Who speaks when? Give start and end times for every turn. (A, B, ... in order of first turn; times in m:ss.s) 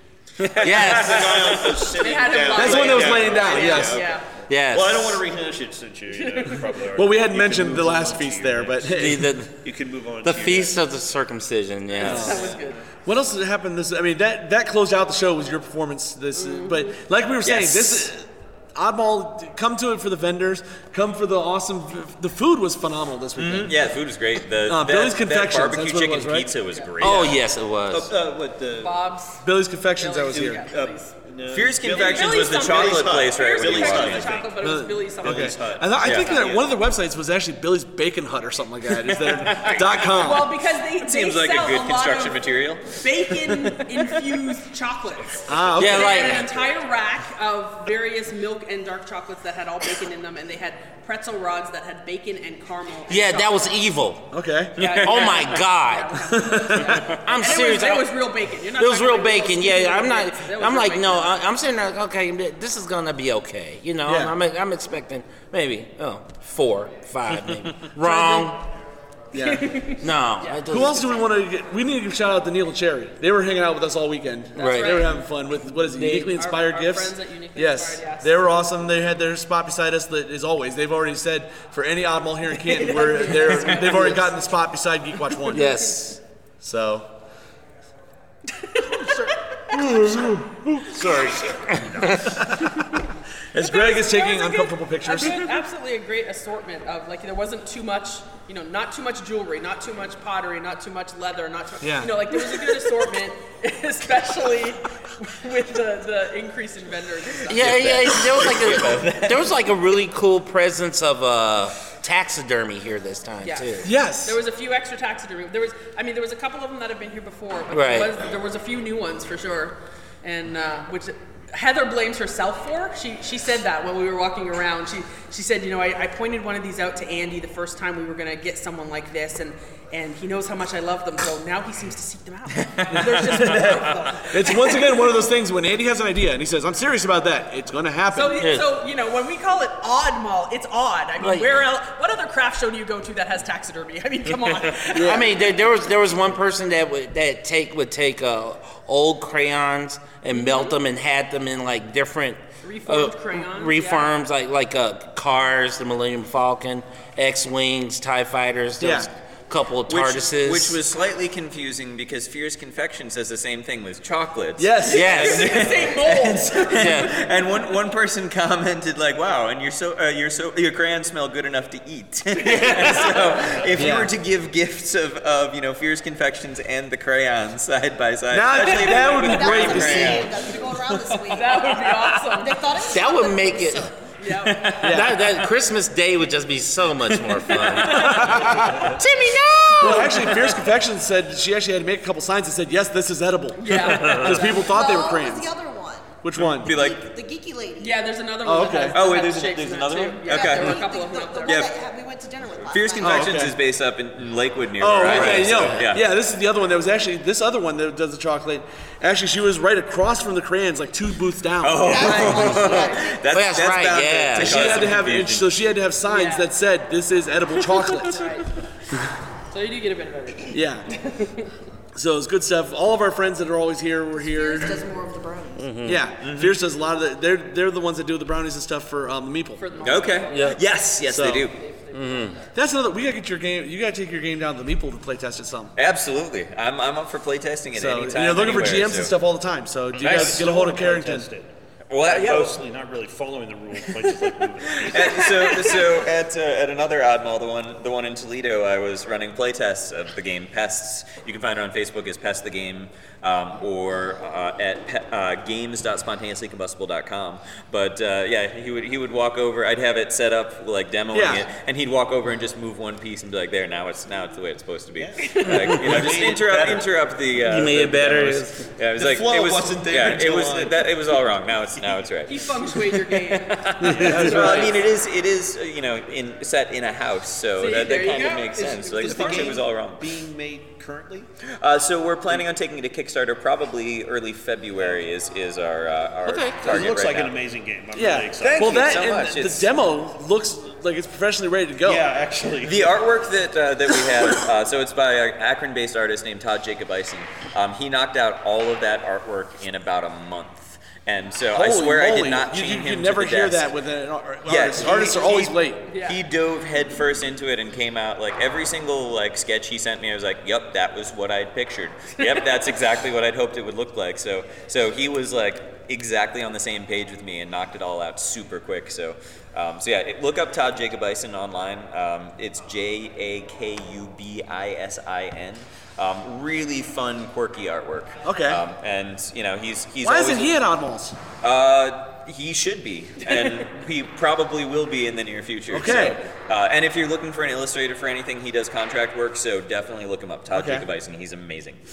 0:00.4-0:01.6 A
0:00.6-0:01.7 B
0:00.6-0:10.8 C
0:02.0-0:04.3 D
0:02.5-0:04.1 E
0:04.5-0:05.2 B
0:06.3-0:06.7 D
0:07.0-0:09.4 E
0:08.9-0:09.7 B
0:10.2-0:12.4 B
0:11.9-0:12.8 D
0:12.0-0:12.5 E
0:13.0-0:23.9 E
0:16.4-0:17.0 D
0:17.4-0:18.1 A
0:23.4-0:27.4 A
0:24.7-0:26.6 E
0:27.0-0:28.1 B
0:27.9-0:29.1 C
0:28.8-0:29.4 D
0:29.4-0:30.7 E
0:30.0-0:31.2 D
0:30.3-0:34.6 C
0:31.5-0:34.4 A
0:31.9-0:35.7 D
0:34.6-0:40.6 E
0:35.2-0:36.7 C
0:36.0-0:36.7 A
0:39.3-0:40.2 A
0:40.1-0:53.7 D
0:41.0-0:43.8 A
0:45.5-0:46.3 E
0:45.8-0:46.5 B
0:53.1-0:54.3 B
0:54.3-0:54.8 E
0:54.8-0:55.5 A
0:54.8-1:01.4 D
0:54.9-0:56.2 B
0:56.3-0:57.0 E
0:56.8-0:58.2 B
0:58.8-1:08.6 B
1:04.1-1:04.4 E
1:08.0-1:08.6 D
1:09.3-1:09.9 E
1:09.4-1:10.8 D
1:10.0-1:11.1 B
1:10.7-1:25.9 E
1:14.6-1:15.2 D
1:14.6-1:15.1 B
1:15.9-1:16.4 B
1:16.3-1:18.6 D
1:22.7-1:24.2 D
1:25.5-1:26.2 B
1:25.5-1:26.0 D
1:26.6-1:27.1 E
1:28.8-1:29.8 D
1:29.7-1:31.5 E
1:31.1-1:32.2 C
1:32.0-1:32.3 B
1:32.1-1:32.9 E
1:33.5-1:35.5 E
1:33.6-1:48.3 D
1:41.8-1:42.4 E
1:47.5-1:53.9 B
1:47.6-1:49.5 A
1:53.4-2:15.1 D
1:53.8-1:54.4 E
1:57.7-1:58.1 B
2:12.6-2:13.7 A
2:12.9-2:18.5 E
2:18.1-2:25.5 D
2:18.4-2:18.7 B
2:21.2-2:21.5 B
2:24.9-2:40.8 B
2:24.9-2:25.3 E
2:30.3-2:30.8 D
2:32.6-2:34.2 D
2:38.8-2:39.1 E
2:39.9-3:00.3 A
2:44.6-2:45.3 E
2:44.9-2:45.6 B
2:44.9-2:47.3 D
2:46.7-2:47.2 B
2:52.4-2:53.3 D
2:53.8-2:54.1 E
2:58.3-3:00.2 E
2:59.2-3:04.1 F
3:01.3-3:02.7 D
3:02.9-3:03.9 B
3:04.2-3:05.1 D
3:04.6-3:10.5 B
3:04.8-3:05.3 E
3:07.8-3:08.1 D
3:08.0-3:08.8 E
3:09.8-3:15.5 E
3:13.6-3:14.7 D
3:14.5-3:18.2 F
3:16.2-3:16.7 E
3:16.4-3:17.1 A
3:17.8-3:21.7 D
3:18.4-3:19.0 E
3:18.9-3:20.9 A
3:20.2-3:23.4 F
3:21.4-3:21.7 A
3:22.7-3:26.1 A
3:23.0-3:23.6 E
3:24.8-3:32.2 E
3:25.1-3:25.7 B
3:31.6-3:35.5 A
3:31.8-3:33.3 F
3:31.9-3:33.0 D
3:33.3-3:34.9 B
3:34.4-3:38.3 E
3:36.1-3:36.5 D
3:37.6-3:38.6 D
3:39.5-3:41.5 D
3:40.5-3:40.9 E
3:42.0-3:44.8 E
3:44.2-3:45.8 F
3:45.6-3:46.0 B
3:45.8-3:49.9 E
3:46.2-3:46.6 A
3:49.6-3:52.5 D
3:49.8-3:51.6 A
3:50.3-3:50.6 B
3:51.1-3:51.5 E
3:51.9-3:52.4 B
3:52.6-3:55.7 E
3:55.8-3:59.2 A
3:57.7-4:01.3 E
4:00.0-4:06.0 C
4:00.0-4:00.5 A
4:01.9-4:02.6 A
4:04.8-4:32.6 A
4:21.1-4:21.5 E
4:25.0-4:26.9 C
4:25.4-4:26.0 B
4:27.4-4:28.6 B
4:28.9-4:32.1 C
4:32.3-4:34.6 D
4:33.8-4:34.4 E
4:33.9-4:34.9 C
4:34.1-4:40.1 A
4:37.6-4:39.6 D
4:38.9-4:41.3 C
4:41.6-4:47.4 A
4:46.3-4:46.6 B
4:46.6-4:49.0 C
4:48.0-4:52.0 E
4:48.4-4:49.7 A
4:51.8-4:53.1 C
4:52.6-5:03.7 A
5:01.5-5:05.8 E
5:04.5-5:30.6 A
5:05.9-5:06.2 D
5:28.2-5:28.6 E
5:30.0-5:31.2 E
5:31.4-5:41.8 A
5:35.7-5:36.2 E
5:40.5-5:40.9 E